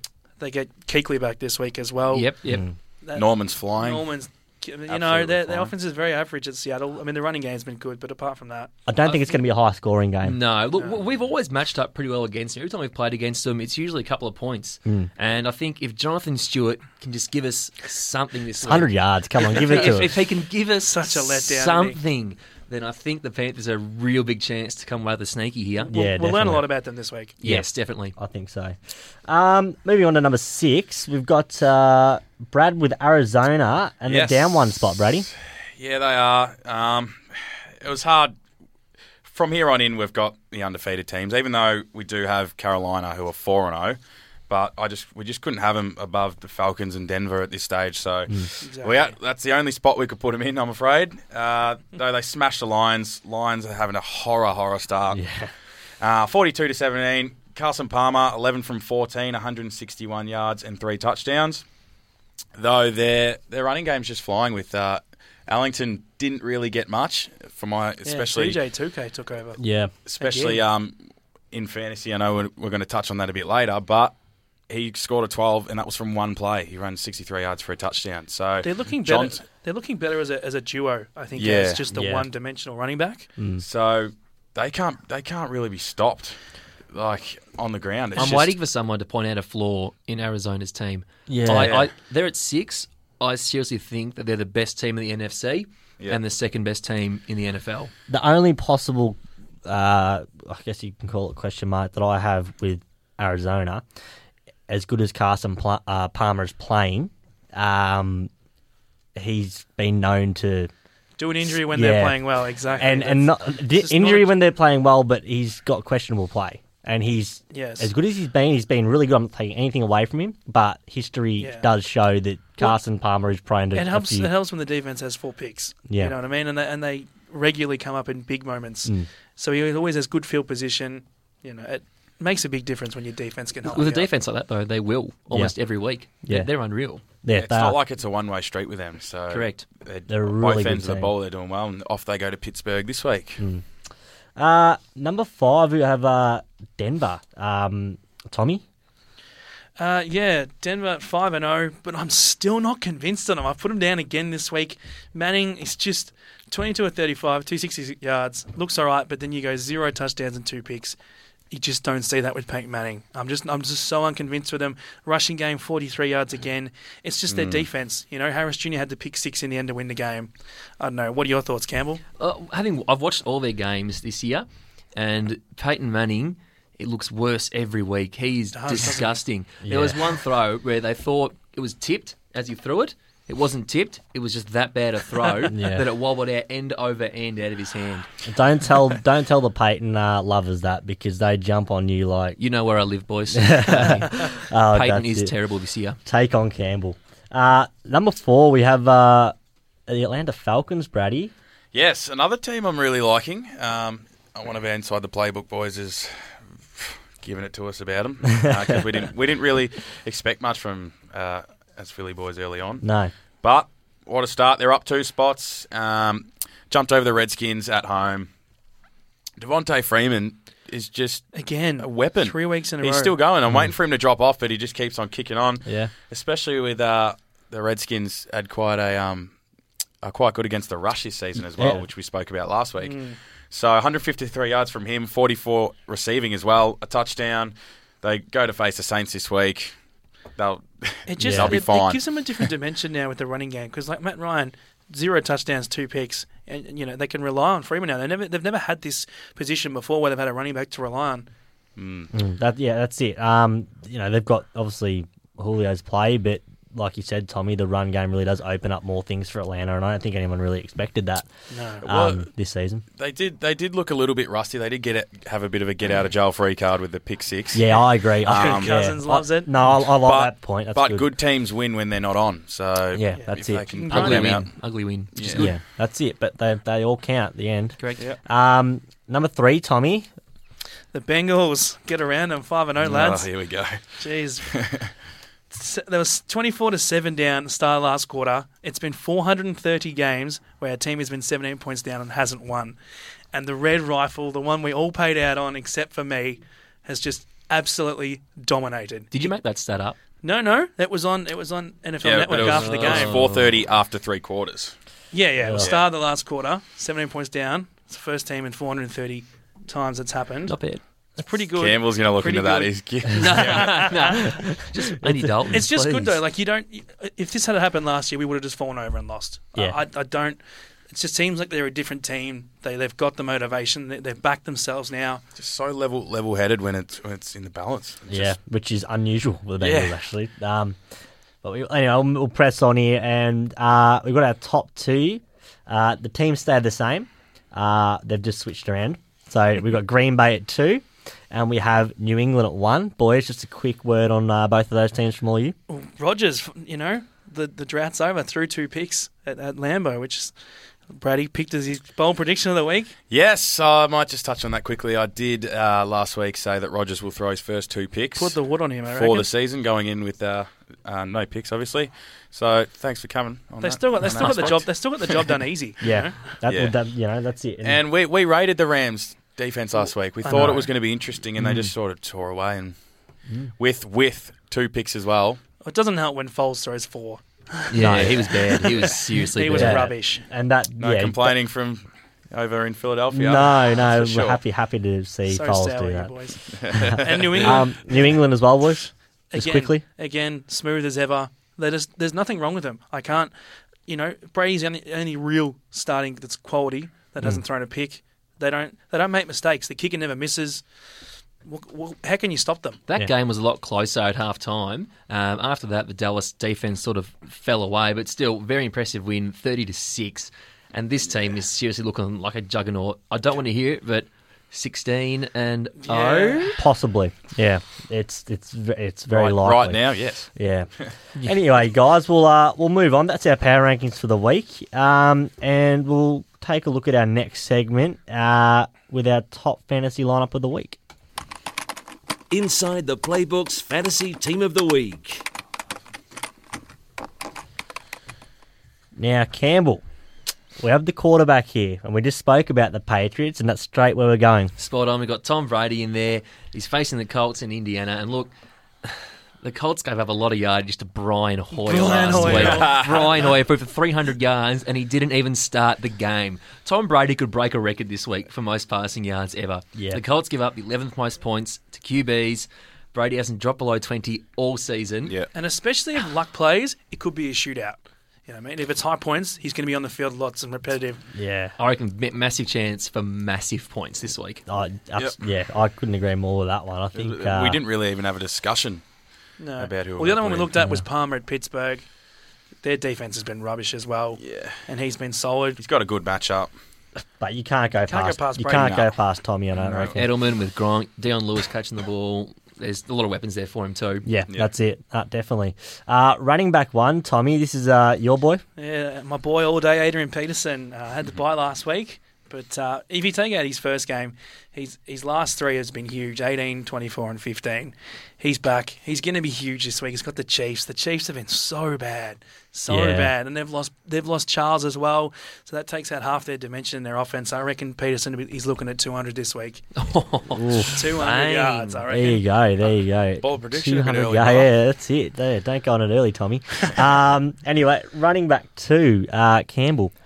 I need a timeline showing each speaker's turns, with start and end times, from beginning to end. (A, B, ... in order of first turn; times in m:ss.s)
0:00.4-0:02.3 A
0:02.1-0:02.6 B
0:02.5-0:02.7 C
0:03.0-0:09.4 A
0:03.1-0:04.1 D
0:04.9-0:05.7 D
0:08.9-0:10.4 C
0:10.2-0:25.9 B
0:14.8-0:15.1 C
0:18.6-0:20.1 C
0:20.8-0:22.0 A
0:25.9-0:26.6 C
0:25.9-0:27.4 A
0:27.4-0:28.1 B
0:27.4-0:35.3 C
0:34.1-0:34.8 D
0:35.8-0:38.3 D
0:39.2-0:55.2 D
0:48.6-0:49.1 A
0:55.1-0:55.5 C
0:56.0-1:01.6 D
1:02.6-1:08.6 D
1:08.0-1:09.6 A
1:09.6-1:09.9 C
1:10.0-1:11.0 D
1:10.2-1:10.6 A
1:11.5-1:14.1 D
1:14.7-1:19.4 D
1:18.6-1:23.3 A
1:21.4-1:21.8 D
1:21.9-1:22.3 C
1:23.4-1:23.6 C
1:23.6-1:26.4 D
1:26.9-1:28.5 D
1:28.2-1:37.9 B
1:31.3-1:31.9 C
1:38.1-1:43.8 C
1:44.7-1:48.3 C
1:49.1-1:50.7 C
1:51.2-1:54.3 A
1:51.4-1:52.2 C
1:52.8-2:04.3 C
1:57.5-1:57.9 A
2:01.4-2:01.7 A
2:03.7-2:14.1 A
2:05.9-2:06.1 C
2:13.6-2:17.0 B
2:16.2-2:16.5 C
2:17.2-2:17.8 C
2:17.3-2:23.4 D
2:19.3-2:19.6 B
2:20.1-2:21.1 C
2:23.4-2:23.6 C
2:24.4-2:28.6 C
2:29.8-2:41.0 A
2:41.5-2:52.0 A
2:47.3-2:47.7 D
2:52.2-3:08.1 B
2:58.5-2:59.2 A
2:59.6-3:00.0 C
3:05.5-3:05.8 C
3:08.2-3:12.4 C
3:12.4-3:16.0 B
3:13.3-3:15.3 C
3:16.0-3:19.3 C
3:19.9-3:21.3 C
3:21.7-3:26.1 D
3:26.7-3:32.8 D
3:28.4-3:28.8 C
3:32.8-3:33.1 C
3:33.4-3:38.3 D
3:39.4-3:49.3 D
3:41.3-3:43.2 A
3:43.5-3:43.7 C
3:45.6-3:45.9 C
3:50.0-3:53.0 D
3:51.5-3:51.8 C
3:52.8-3:53.2 A
3:53.5-3:59.7 D
4:00.4-4:02.5 D
4:01.1-4:11.3 A
4:01.2-4:01.6 C
4:11.8-4:12.1 D
4:12.1-4:21.3 C
4:21.5-4:21.8 A
4:21.8-4:22.8 C
4:21.8-4:22.2 D
4:23.0-4:27.7 D
4:27.5-4:31.1 C
4:27.7-4:29.5 A
4:28.2-4:28.8 D
4:30.0-4:34.5 D
4:32.9-4:34.2 C
4:33.1-4:34.3 A
4:33.9-4:35.5 B
4:35.1-4:35.4 D
4:35.4-4:40.1 C
4:40.9-4:43.3 A
4:42.8-4:43.9 D
4:44.0-4:44.5 A
4:44.4-4:44.9 D
4:45.5-4:52.8 A
4:53.3-4:59.2 A
4:59.1-5:00.0 B
5:00.2-5:03.2 A
5:02.0-5:04.7 D
5:02.3-5:03.5 B
5:05.1-5:10.6 A
5:05.4-5:05.7 C
5:05.6-5:05.8 D
5:10.4-5:10.8 B
5:11.2-5:14.3 A
5:11.6-5:13.8 D
5:13.2-5:16.2 B
5:15.5-5:25.2 A
5:25.4-5:28.3 D
5:28.1-5:30.8 C
5:29.6-5:30.0 D
5:31.4-5:45.6 C
5:45.7-5:50.3 A
5:50.9-5:52.9 A
5:53.1-5:58.4 D
5:58.2-5:59.3 A
5:58.9-6:05.3 D
6:03.6-6:06.2 A
6:04.2-6:04.6 B
6:05.8-6:07.8 C
6:06.4-6:06.7 D
6:07.6-6:12.7 D
6:10.2-6:10.7 A
6:11.4-6:11.7 C
6:13.6-6:15.4 D
6:15.6-6:20.2 A
6:17.7-6:19.9 B
6:17.8-6:18.1 C
6:19.5-6:21.3 C
6:20.8-6:24.4 D
6:23.1-6:26.1 C
6:25.3-6:27.7 A
6:26.5-6:27.6 D
6:26.7-6:29.8 C
6:29.3-6:33.3 A
6:33.8-6:40.6 A
6:41.4-6:42.8 A
6:42.9-6:56.6 B
6:55.8-6:56.6 A
6:56.6-7:10.8 C
6:59.1-7:00.3 D
7:12.3-7:15.2 E
7:19.0-7:19.8 C
7:20.6-7:24.5 C
7:24.6-7:28.3 B
7:28.8-7:45.1 B
7:31.6-7:32.8 A
7:31.8-7:33.0 D
7:32.2-7:32.5 C
7:39.7-7:40.0 C
7:45.3-7:51.0 A
7:51.1-7:51.5 C
7:51.6-7:54.4 B
7:54.5-7:57.6 C
7:56.9-7:58.8 D
7:59.4-8:01.8 A
7:59.6-8:00.5 D
8:02.6-8:05.6 A
8:04.2-8:04.6 D
8:05.6-8:06.5 D
8:07.2-8:10.1 C
8:07.8-8:08.8 A
8:08.5-8:08.8 D
8:09.5-8:10.0 D
8:10.0-8:14.0 B
8:14.0-8:18.4 C
8:18.6-8:39.6 A
8:32.7-8:33.1 C
8:39.8-8:41.8 B
8:40.4-8:40.7 C
8:40.7-8:42.2 A
8:41.9-8:49.9 C
8:43.2-8:44.5 D